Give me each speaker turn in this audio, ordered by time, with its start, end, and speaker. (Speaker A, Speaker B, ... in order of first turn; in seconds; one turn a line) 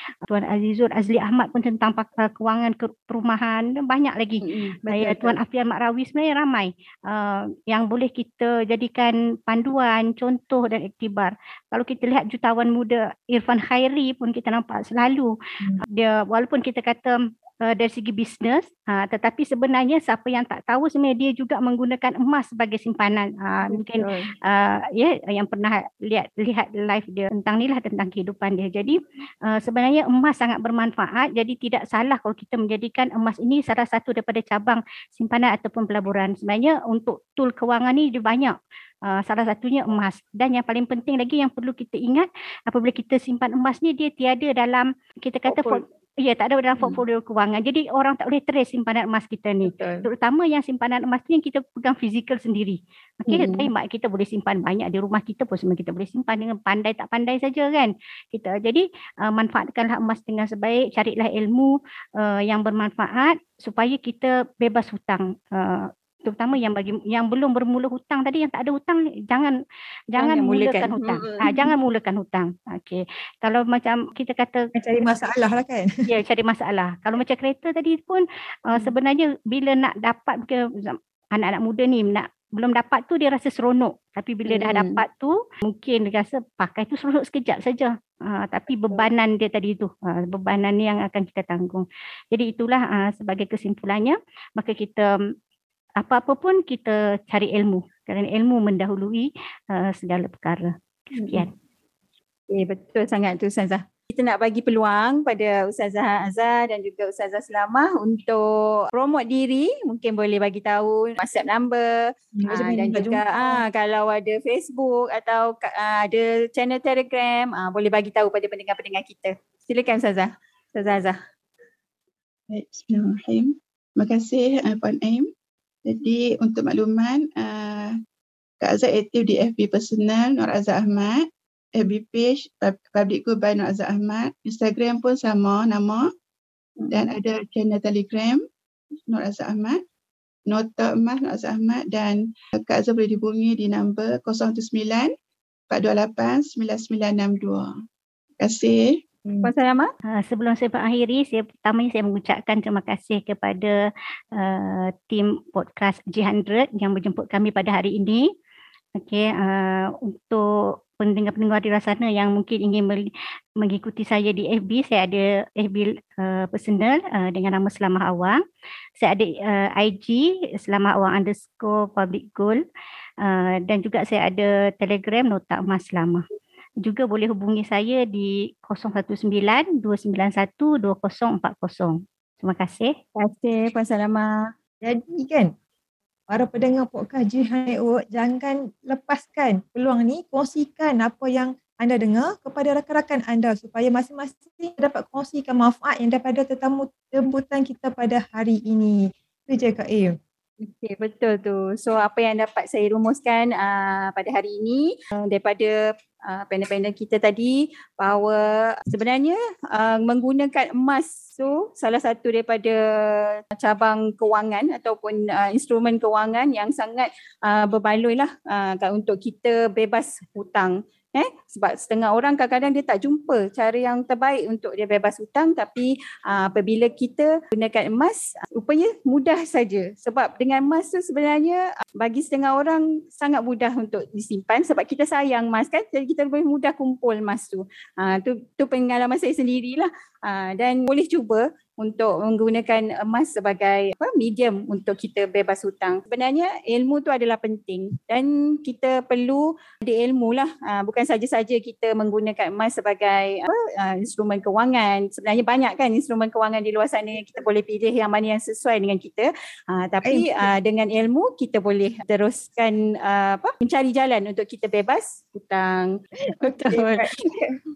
Speaker A: 0.2-15.3
Speaker B: 4.4-5.4
Speaker A: 15.9-17.1
Speaker A: 17.7-29.0
Speaker B: 23.7-24.3
Speaker A: 29.5-38.5
Speaker A: 39.1-69.6
Speaker B: 45.5-45.8
Speaker B: 49.6-50.0
Speaker B: 53.3-53.7
Speaker A: 70.1-74.7
Speaker B: 70.2-71.7
Speaker C: 74.8-75.9
Speaker A: 76.1-95.1
Speaker B: 84.5-85.0
Speaker B: 88.7-89.1
Speaker A: 96.0-101.5
Speaker B: 101.2-101.5
Speaker B: 102.5-121.2
Speaker C: 112.4-113.6
Speaker D: 122.5-125.3
Speaker D: 125.9-128.0
Speaker D: 128.6-131.2
Speaker D: 131.8-136.1
Speaker D: 136.9-138.4
Speaker D: 139.1-139.8
Speaker D: 140.5-145.1
Speaker D: 145.7-147.7
Speaker D: 148.4-149.0
Speaker B: 149.4-149.9
Speaker A: 150.2-153.7
Speaker A: 154.3-158.2
Speaker A: 159.0-160.4
Speaker A: 161.0-163.1
Speaker A: 163.6-168.4
Speaker A: 169.0-172.6
Speaker A: 173.2-176.2
Speaker A: 176.8-182.9
Speaker B: 183.2-184.5
Speaker C: 184.8-185.5
Speaker C: 186.3-199.0
Speaker C: 199.5-200.1
Speaker B: 200.6-205.7
Speaker B: 206.3-267.4
Speaker C: 260.0-260.5
Speaker C: 266.4-267.1